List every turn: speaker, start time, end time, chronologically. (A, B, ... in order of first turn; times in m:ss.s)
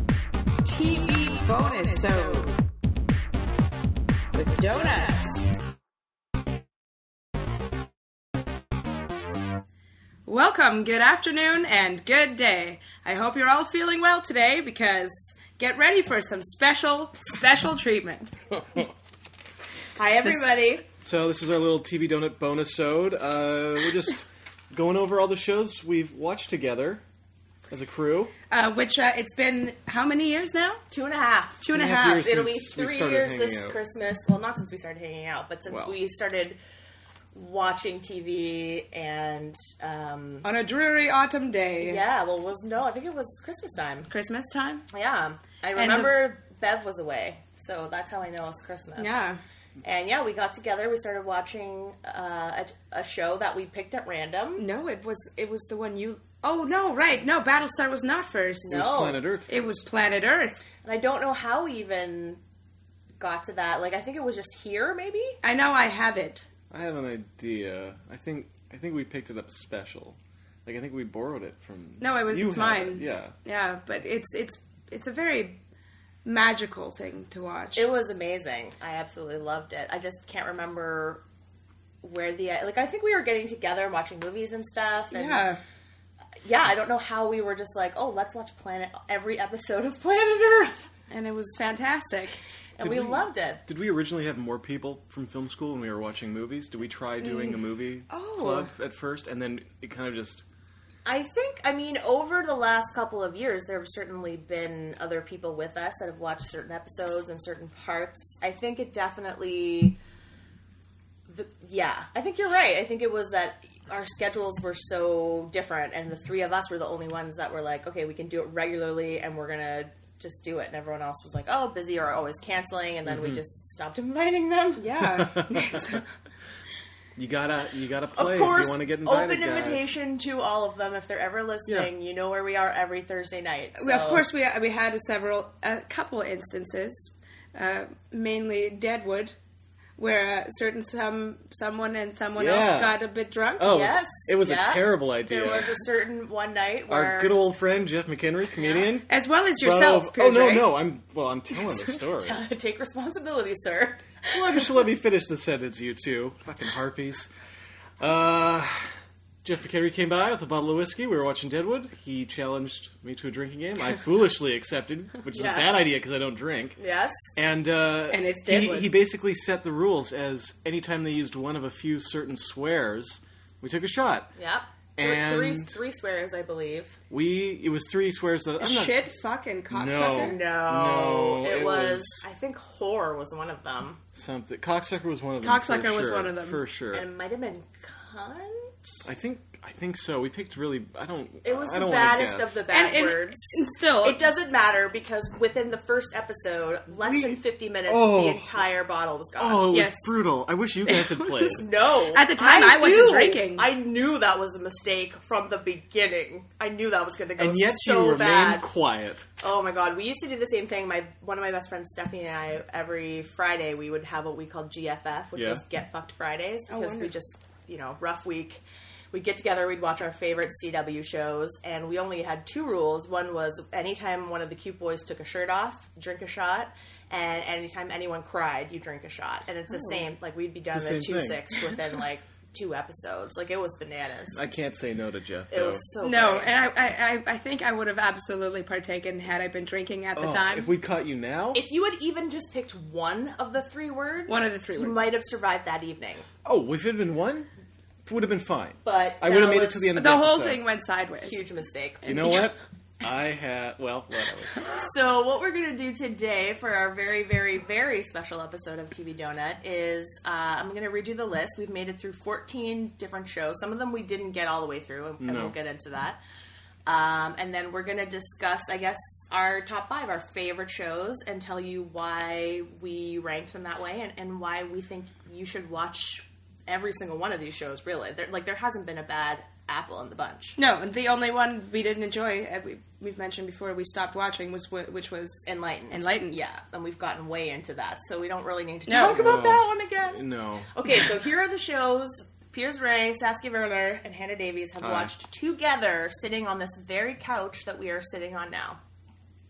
0:00.6-0:02.5 A
0:04.4-0:05.4 A
0:10.3-0:18.3 A
0:20.0-0:20.8 B
0:21.0-0:27.0 C
0:27.7-0:28.3 C
0:28.5-0:30.8 A
0:30.9-0:31.6 B
0:31.6-0:32.3 A
0:31.7-0:33.8 C
0:32.2-0:36.6 B
0:35.7-0:36.0 C
0:37.3-0:40.5 B
0:40.4-0:42.0 A
0:41.8-0:44.1 B
0:44.1-0:44.9 A
0:44.9-0:49.2 B
0:45.7-0:46.2 A
0:49.0-0:49.4 A
0:49.8-0:54.6 B
0:54.6-0:58.8 A
0:58.7-0:59.2 B
0:58.7-0:59.9 C
0:59.5-1:00.6 A
1:00.8-1:02.4 B
1:03.2-1:05.4 B
1:05.4-1:06.5 A
1:06.7-1:13.3 C
1:12.0-1:15.6 A
1:16.2-1:17.9 A
1:17.8-1:21.2 B
1:22.0-1:25.4 B
1:25.1-1:25.6 A
1:26.4-1:30.9 B
1:31.1-1:32.4 A
1:32.8-1:33.6 B
1:32.8-1:40.4 C
1:37.2-1:38.7 A
1:41.0-1:50.0 B
1:51.3-2:04.9 B
2:03.0-2:03.4 C
2:04.8-2:06.0 A
2:05.0-2:05.9 C
2:07.2-2:10.0 C
2:08.2-2:14.3 B
2:13.8-2:19.4 A
2:20.0-2:23.7 A
2:22.4-2:23.0 C
2:23.6-2:25.8 C
2:23.6-2:27.4 B
2:26.9-2:29.1 C
2:28.6-2:28.9 B
2:29.1-2:30.8 A
2:29.6-2:32.4 C
2:32.2-2:34.2 B
2:34.3-2:37.3 C
2:38.0-2:38.9 C
2:39.4-2:46.8 C
2:45.3-2:45.9 B
2:46.8-2:47.2 B
2:47.4-2:54.3 C
2:48.1-2:49.0 A
2:54.4-2:57.0 B
2:55.0-2:55.8 C
2:57.1-2:59.0 C
2:58.6-3:00.4 A
2:59.7-3:02.3 C
3:00.2-3:04.0 B
3:04.2-3:07.1 C
3:05.4-3:06.6 A
3:06.9-3:09.0 B
3:09.0-3:12.6 C
3:11.4-3:19.7 B
3:12.7-3:14.2 A
3:17.0-3:18.6 C
3:19.4-3:21.7 C
3:19.7-3:20.1 A
3:20.9-3:21.6 A
3:21.5-3:28.7 B
3:22.1-3:23.7 A
3:27.4-3:29.3 C
3:29.4-3:54.4 B
3:35.4-3:35.6 C
3:36.7-3:37.1 A
3:50.7-3:51.6 C
3:54.3-3:55.8 C
3:55.5-3:56.5 B
3:56.0-4:00.7 A
4:00.2-4:01.6 C
4:01.5-4:06.3 B
4:04.3-4:05.0 A
4:06.4-4:07.5 C
4:08.1-4:10.6 C
4:08.8-4:09.9 B
4:09.9-4:11.4 A
4:11.2-4:12.0 B
4:12.0-4:12.5 A
4:12.1-4:14.6 C
4:14.7-4:26.2 B
4:25.2-4:25.6 C
4:26.9-4:40.6 B
4:40.6-4:46.4 A
4:45.5-4:50.2 B
4:48.9-4:49.2 A
4:49.0-4:50.7 C
4:50.8-4:58.8 B
4:54.8-4:55.1 C